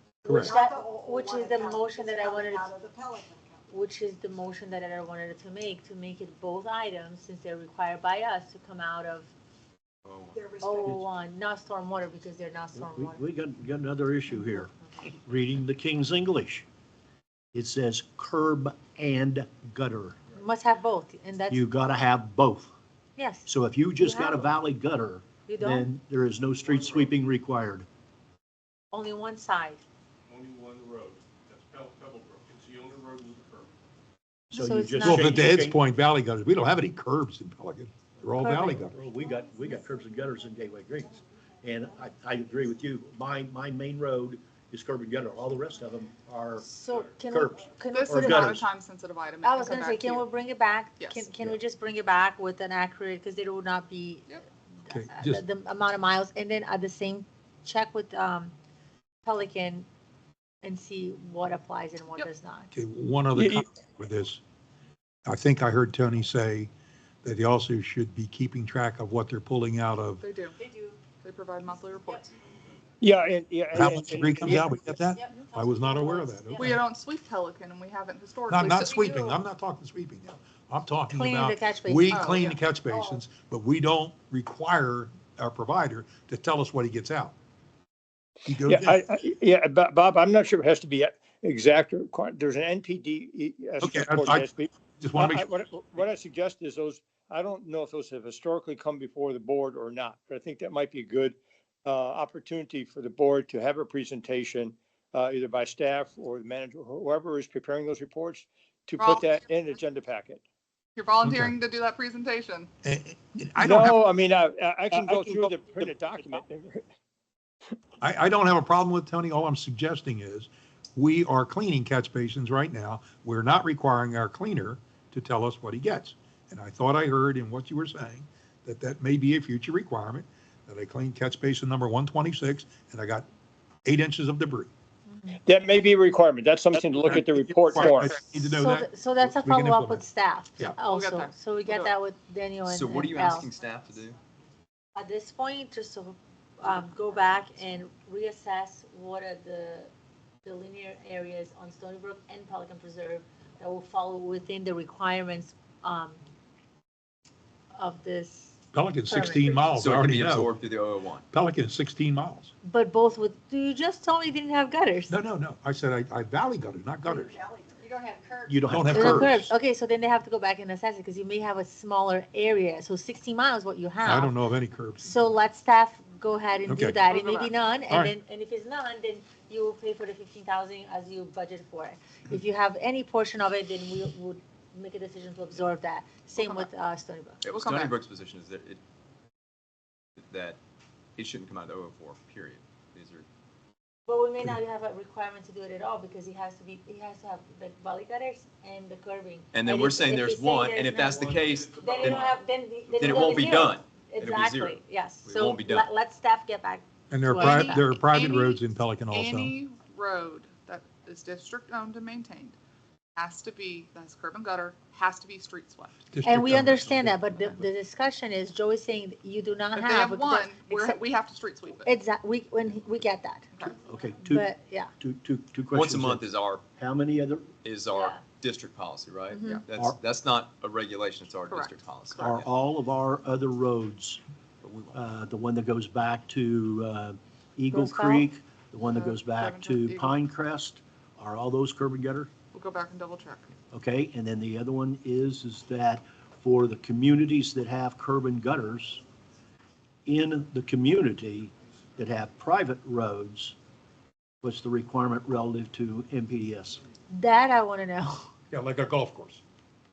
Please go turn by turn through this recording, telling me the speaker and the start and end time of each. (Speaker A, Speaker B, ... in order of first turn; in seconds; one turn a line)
Speaker A: 0.2-2.7
Speaker B: 0.2-0.6
Speaker C: 0.3-3.6
Speaker A: 3.7-9.3
Speaker D: 10.1-10.4
Speaker C: 10.3-11.0
Speaker A: 10.6-13.2
Speaker E: 12.8-16.7
Speaker A: 14.3-14.6
Speaker E: 17.5-20.2
Speaker A: 20.4-21.7
Speaker E: 21.5-22.7
Speaker A: 23.2-24.5
Speaker E: 23.5-27.9
Speaker A: 25.5-25.9
Speaker F: 26.8-27.1
Speaker A: 28.9-29.8
Speaker F: 30.3-33.7
Speaker A: 34.5-35.4
Speaker E: 34.5-35.8
Speaker B: 35.0-39.0
Speaker A: 38.4-38.9
Speaker E: 38.9-48.6
Speaker A: 46.6-48.6
Speaker G: 47.9-50.3
Speaker A: 49.4-54.3
Speaker G: 51.0-51.3
Speaker A: 54.9-58.5
Speaker B: 54.9-55.4
Speaker A: 59.2-59.9
Speaker A: 60.6-62.7
Speaker B: 62.7-64.4
Speaker H: 63.4-63.7
Speaker B: 65.3-66.7
Speaker B: 67.2-70.2
Speaker G: 70.2-70.6
Speaker G: 71.2-72.3
Speaker H: 73.0-75.0
Speaker B: 73.8-76.8
Speaker G: 76.6-79.3
Speaker B: 78.5-87.3
Speaker D: 78.9-79.3
Speaker A: 81.1-82.6
Speaker G: 82.1-82.5
Speaker C: 82.9-83.2
Speaker D: 88.5-88.8
Speaker H: 88.7-110.4
Speaker B: 93.8-94.4
Speaker B: 95.0-95.5
Speaker G: 109.0-109.3
Speaker G: 111.0-112.7
Speaker B: 111.2-111.5
Speaker B: 112.8-114.0
Speaker H: 113.6-116.8
Speaker B: 115.0-115.4
Speaker B: 118.0-133.3
Speaker B: 133.8-134.7
Speaker H: 135.5-138.1
Speaker B: 137.7-140.1
Speaker A: 138.2-143.5
Speaker G: 140.8-141.9
Speaker D: 142.7-144.2
Speaker A: 144.9-149.9
Speaker A: 150.4-156.2
Speaker A: 157.8-158.6
Speaker B: 158.7-160.5
Speaker A: 159.1-159.7
Speaker D: 159.7-161.3
Speaker B: 161.3-162.5
Speaker A: 162.6-165.2
Speaker B: 165.1-167.4
Speaker C: 167.1-168.6
Speaker E: 168.5-169.4
Speaker B: 168.7-169.5
Speaker A: 168.9-174.4
Speaker B: 174.0-175.1
Speaker A: 175.0-187.4
Speaker B: 176.7-177.0
Speaker G: 177.1-177.5
Speaker B: 177.9-178.2
Speaker G: 186.4-186.7
Speaker D: 187.4-188.8
Speaker G: 187.5-188.0
Speaker D: 190.2-190.6
Speaker D: 191.2-193.3
Speaker A: 194.1-207.9
Speaker D: 199.5-202.4
Speaker D: 202.9-205.9
Speaker B: 207.1-209.5
Speaker G: 207.3-212.6
Speaker G: 213.2-216.0
Speaker B: 216.1-217.2
Speaker A: 216.2-221.0
Speaker G: 219.8-221.9
Speaker A: 221.8-223.5
Speaker E: 223.9-224.5
Speaker A: 224.2-224.9
Speaker E: 225.0-226.2
Speaker D: 225.7-226.6
Speaker E: 226.8-227.5
Speaker D: 227.6-232.5
Speaker A: 227.9-228.2
Speaker A: 229.3-229.6
Speaker G: 231.5-231.8
Speaker E: 232.2-234.2
Speaker D: 234.6-235.0
Speaker E: 234.9-242.3
Speaker A: 237.7-238.3
Speaker G: 238.8-240.2
Speaker G: 242.5-243.5
Speaker E: 243.7-249.0
Speaker E: 250.1-253.6
Speaker E: 254.4-256.8
Speaker A: 257.1-258.3
Speaker B: 258.5-259.4